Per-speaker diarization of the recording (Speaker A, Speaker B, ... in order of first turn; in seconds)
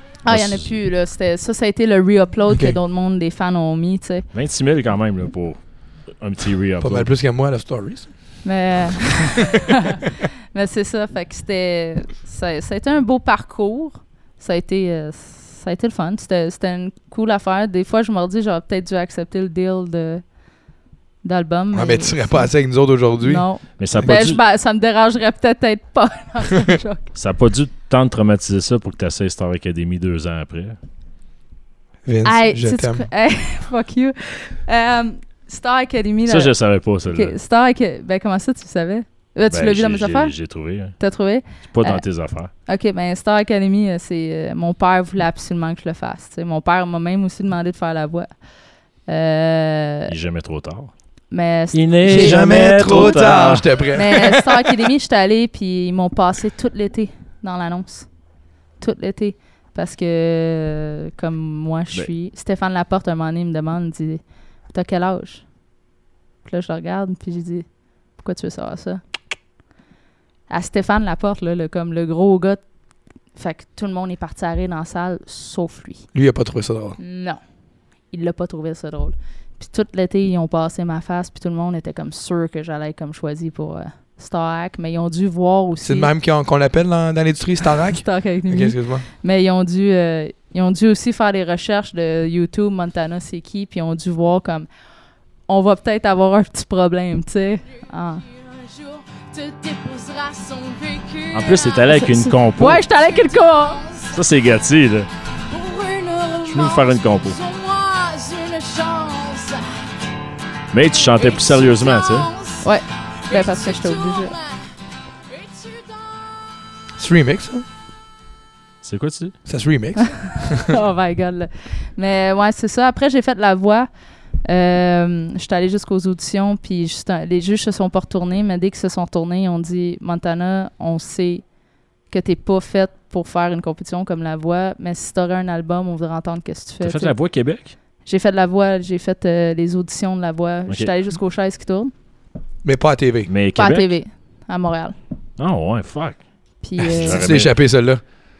Speaker A: 0.2-4.3, 8.4-20.2, 21.2-27.1, 32.2-48.3, 49.0-50.1, 51.3-58.1, 58.8-65.5, 66.4-69.0, 70.5-72.6, 73.3-76.1, 77.0-77.4, 78.1-86.1, 88.0-94.7, 95.5-98.2, 101.9-103.8, 112.6-114.3, 120.0-123.9, 124.4-131.5, 132.1-137.1, 138.0-141.9, 143.6-144.9, 146.6-147.3
Speaker B: 0.3-0.7, 4.3-7.1, 23.8-24.4, 27.1-30.8, 36.3-37.4, 39.5-41.0, 41.6-42.5, 50.1-50.9, 51.7-53.8, 101.3-102.8, 104.1-105.1, 106.5-107.4, 110.7-112.3, 118.8-119.4, 136.8-137.7, 143.3-143.9, 145.4-146.2, 146.8-147.5
Speaker C: 2.5-2.8, 6.8-8.3, 21.7-24.1, 32.0-33.0, 52.0-54.7, 76.1-77.0, 85.8-89.0, 117.0-117.6, 119.5-120.7, 142.6-143.3, 146.9-148.0
Speaker D: 98.1-104.2, 105.5-109.8, 110.8-112.7, 113.2-114.7, 115.3-116.5